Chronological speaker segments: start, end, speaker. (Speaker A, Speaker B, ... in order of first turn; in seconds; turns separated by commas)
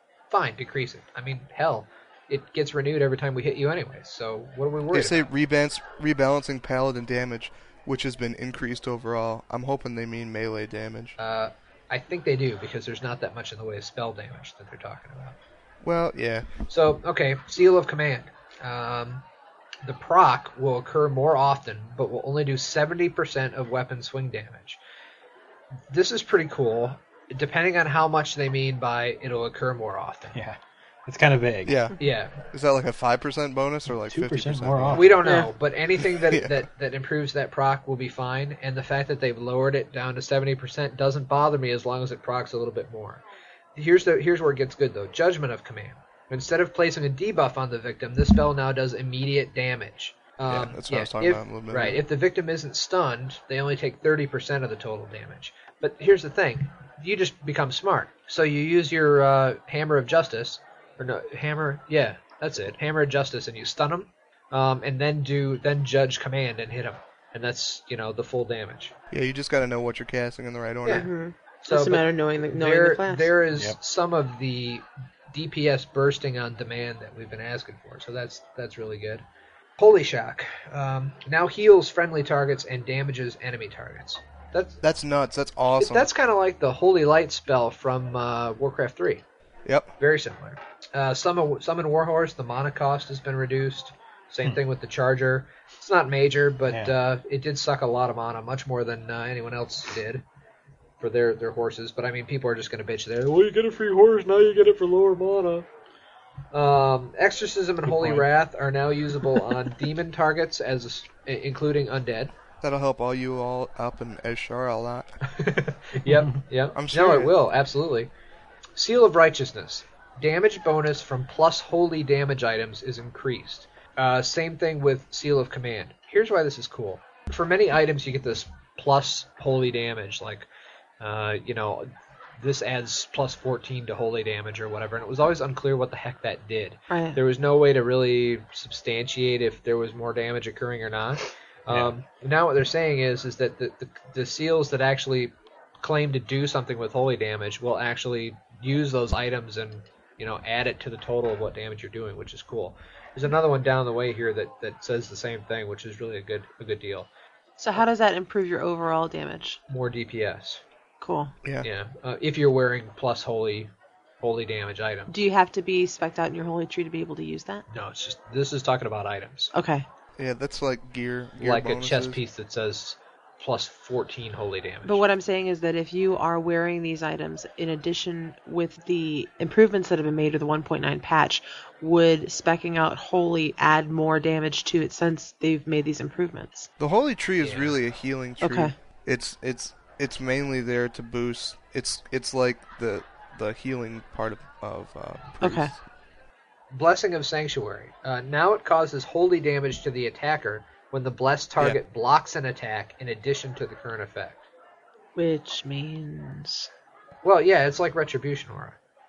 Speaker A: 0.3-5.2, Speaker B: 4.9-11.2, Speaker A: 11.2-15.3, Speaker B: 15.8-16.5, Speaker A: 16.7-19.2, Speaker A: 19.8-24.8, Speaker A: 25.9-30.3, Speaker C: 30.3-31.8, Speaker B: 31.6-35.2, Speaker A: 32.0-32.3, Speaker C: 34.1-35.2, Speaker A: 34.9-43.2, Speaker D: 35.2-35.5, Speaker B: 36.2-36.5, Speaker A: 43.8-68.9, Speaker B: 50.5-52.0, Speaker B: 69.1-71.1, Speaker D: 70.9-73.3, Speaker A: 71.6-79.2, Speaker A: 79.8-84.8, Speaker B: 84.8-86.1, Speaker A: 85.8-89.2, Speaker B: 89.6-89.9, Speaker A: 90.0-100.2, Speaker C: 96.7-96.9, Speaker A: 101.0-105.7, Speaker A: 106.5-112.3, Speaker C: 107.8-108.3, Speaker B: 112.6-115.1, Speaker A: 115.4-118.1, Speaker C: 116.1-116.3, Speaker B: 116.7-117.3, Speaker A: 118.8-130.5, Speaker A: 131.0-157.1, Speaker D: 136.9-137.2, Speaker D: 157.6-159.6, Speaker A: 159.7-160.6, Speaker D: 161.0-161.3, Speaker A: 161.6-163.7, Speaker A: 164.2-165.1, Speaker D: 165.1-167.6, Speaker A: 167.7-169.5, Speaker D: 169.5-169.8, Speaker B: 170.2-172.2, Speaker A: 171.4-175.0, Speaker D: 174.8-186.7, Speaker B: 186.8-195.8, Speaker A: 187.4-187.8, Speaker D: 188.4-188.7, Speaker D: 195.4-195.7, Speaker A: 196.7-204.4, Speaker D: 205.2-206.7, Speaker A: 207.2-208.8